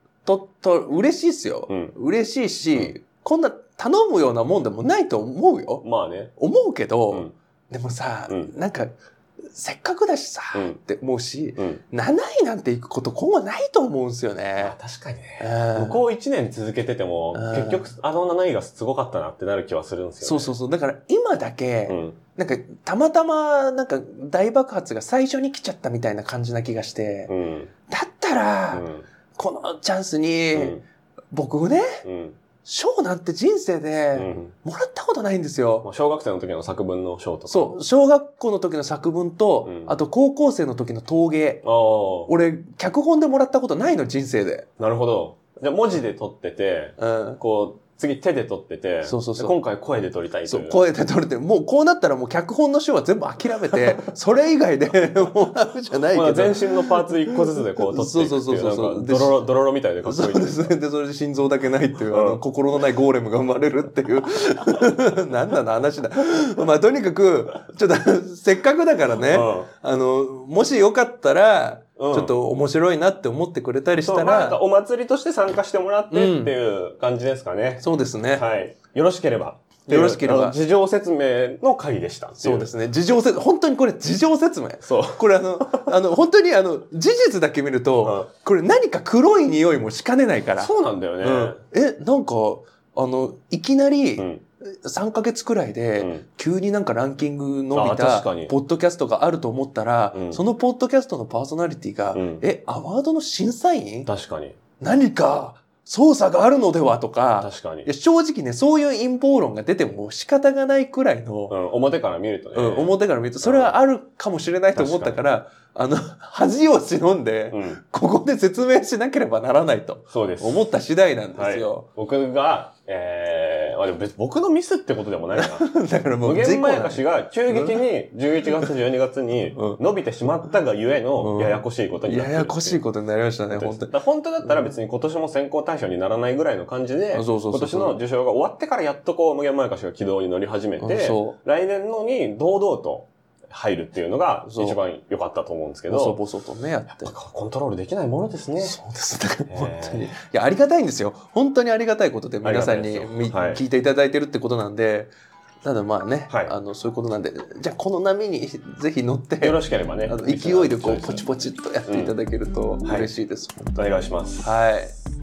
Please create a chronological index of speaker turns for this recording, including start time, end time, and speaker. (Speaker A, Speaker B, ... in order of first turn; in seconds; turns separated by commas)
Speaker A: 0.2-8.9, Speaker B: 1.7-1.9, Speaker B: 5.8-6.3, Speaker A: 9.5-14.8, Speaker B: 10.5-10.8, Speaker B: 14.6-20.6, Speaker A: 15.4-16.0, Speaker A: 17.3-17.9, Speaker A: 20.2-27.3, Speaker B: 21.9-22.2, Speaker B: 27.3-27.7, Speaker A: 27.9-30.8, Speaker B: 28.7-29.1, Speaker B: 30.5-30.8, Speaker A: 31.3-32.0, Speaker B: 32.0-32.4, Speaker A: 32.6-35.9, Speaker B: 34.1-34.5, Speaker B: 35.8-37.8, Speaker A: 37.5-41.7, Speaker B: 39.6-40.0, Speaker B: 41.6-42.3, Speaker A: 42.3-44.7, Speaker B: 44.8-50.8, Speaker A: 47.0-47.4, Speaker A: 49.0-49.6, Speaker A: 50.5-59.4, Speaker B: 56.1-60.7, Speaker A: 60.0-74.6, Speaker B: 62.0-62.4, Speaker B: 69.3-69.7, Speaker B: 72.0-72.4, Speaker B: 74.0-82.7, Speaker A: 76.1-76.6, Speaker A: 77.8-78.5, Speaker A: 79.9-80.6, Speaker A: 82.4-104.1, Speaker B: 84.8-86.0, Speaker B: 88.0-88.3, Speaker B: 90.5-91.6, Speaker B: 94.2-94.4, Speaker B: 96.0-96.3, Speaker B: 97.7-98.5, Speaker B: 100.1-100.4, Speaker B: 102.1-102.5, Speaker B: 104.1-104.6, Speaker A: 104.8-111.6, Speaker B: 107.4-107.9, Speaker B: 111.5-113.8, Speaker A: 112.5-121.9, Speaker B: 114.7-115.2, Speaker B: 117.5-117.8, Speaker B: 120.1-120.7, Speaker B: 121.4-125.7, Speaker A: 125.3-127.8, Speaker B: 126.2-132.9, Speaker A: 129.5-129.8, Speaker A: 131.2-134.7, Speaker B: 133.5-146.2, Speaker A: 137.1-138.0, Speaker A: 140.8-141.4, Speaker A: 144.4-144.8, Speaker A: 145.9-147.2, Speaker B: 147.0-148.8, Speaker A: 148.6-155.1, Speaker B: 149.5-150.1, Speaker B: 152.4-153.6, Speaker A: 155.6-163.8, Speaker B: 156.3-156.6, Speaker B: 159.4-161.3, Speaker B: 161.8-162.2, Speaker B: 162.8-163.1, Speaker B: 163.8-164.6, Speaker A: 164.4-165.0